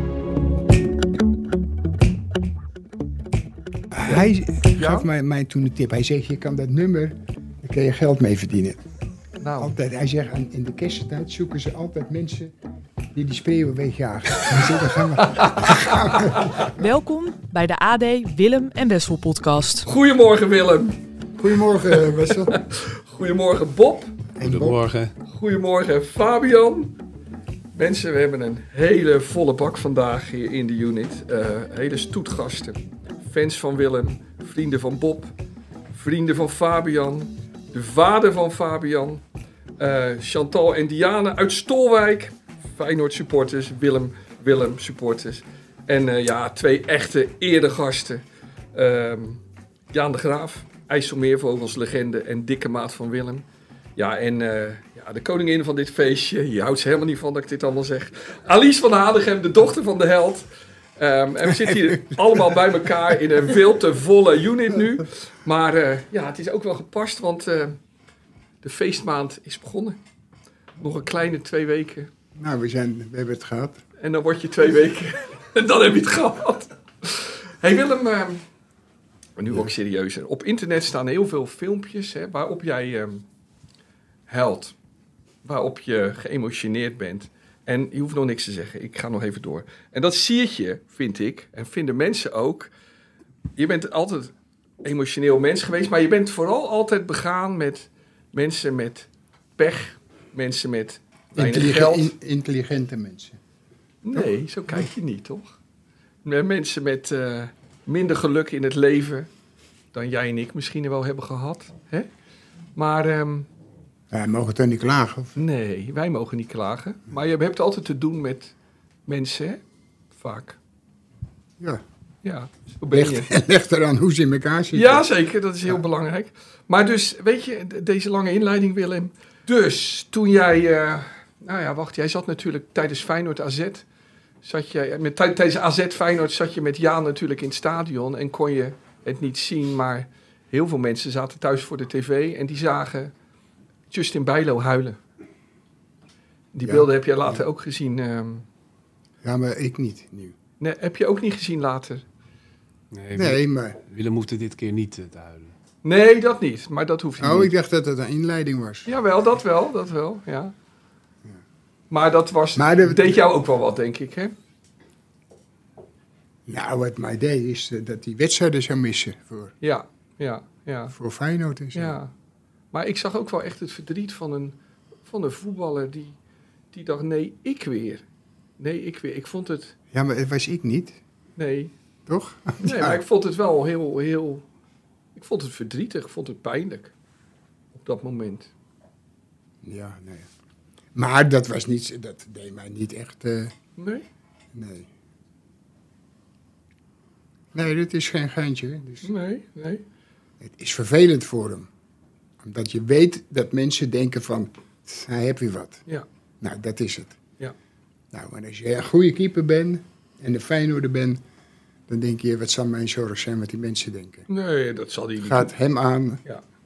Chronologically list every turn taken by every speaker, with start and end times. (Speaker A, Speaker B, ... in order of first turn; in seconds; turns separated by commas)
Speaker A: 3.9-8.8, Speaker B: 4.0-5.0, Speaker B: 9.4-9.7, Speaker A: 9.6-12.5, Speaker A: 13.1-16.5, Speaker B: 15.3-16.5, Speaker C: 16.8-19.9, Speaker B: 19.9-21.0, Speaker A: 21.4-22.5, Speaker B: 21.9-24.1, Speaker A: 24.4-24.8, Speaker D: 24.4-25.1, Speaker B: 25.3-27.0, Speaker B: 27.7-35.3, Speaker B: 35.9-39.2, Speaker B: 39.8-48.2, Speaker B: 48.7-53.4, Speaker B: 54.0-60.5, Speaker B: 61.0-67.8, Speaker A: 61.5-62.6, Speaker B: 68.6-70.0, Speaker B: 70.8-72.1, Speaker A: 72.3-73.8, Speaker B: 74.0-78.4, Speaker B: 79.4-83.2, Speaker B: 84.3-84.7, Speaker B: 85.4-92.7, Speaker B: 93.5-94.3, Speaker B: 94.8-102.1, Speaker A: 101.3-103.4, Speaker B: 104.0-105.5, Speaker B: 106.2-109.3, Speaker B: 109.9-112.1, Speaker B: 112.8-113.5, Speaker A: 114.1-115.3, Speaker B: 115.3-118.5, Speaker B: 119.1-119.6, Speaker B: 120.1-120.6, Speaker B: 122.2-123.3, Speaker A: 122.9-125.1, Speaker B: 124.7-133.8, Speaker B: 134.4-143.1, Speaker B: 143.9-145.0, Speaker B: 146.5-148.4, Speaker A: 146.6-147.4, Speaker A: 149.2-150.3, Speaker B: 150.6-152.0, Speaker D: 152.9-155.5, Speaker A: 153.1-153.8, Speaker B: 155.8-157.5, Speaker A: 157.2-158.9, Speaker B: 158.8-160.5, Speaker B: 161.9-164.3, Speaker A: 162.6-163.2, Speaker A: 166.5-169.5, Speaker B: 169.6-170.9, Speaker A: 170.9-172.0, Speaker B: 171.7-172.1, Speaker B: 172.7-176.2, Speaker B: 176.7-178.0, Speaker B: 178.6-179.7, Speaker A: 179.9-181.0, Speaker B: 181.4-181.7, Speaker A: 182.1-183.0, Speaker B: 182.6-184.4, Speaker B: 185.1-186.9, Speaker B: 187.7-188.5, Speaker A: 189.6-190.3, Speaker A: 190.9-193.5, Speaker B: 193.8-194.0, Speaker A: 194.5-194.9, Speaker A: 197.5-199.1, Speaker B: 199.0-199.8, Speaker A: 200.4-201.7, Speaker A: 202.4-205.8, Speaker A: 206.4-207.2, Speaker A: 208.1-211.2, Speaker A: 211.9-214.3, Speaker B: 214.3-215.5, Speaker A: 215.2-216.2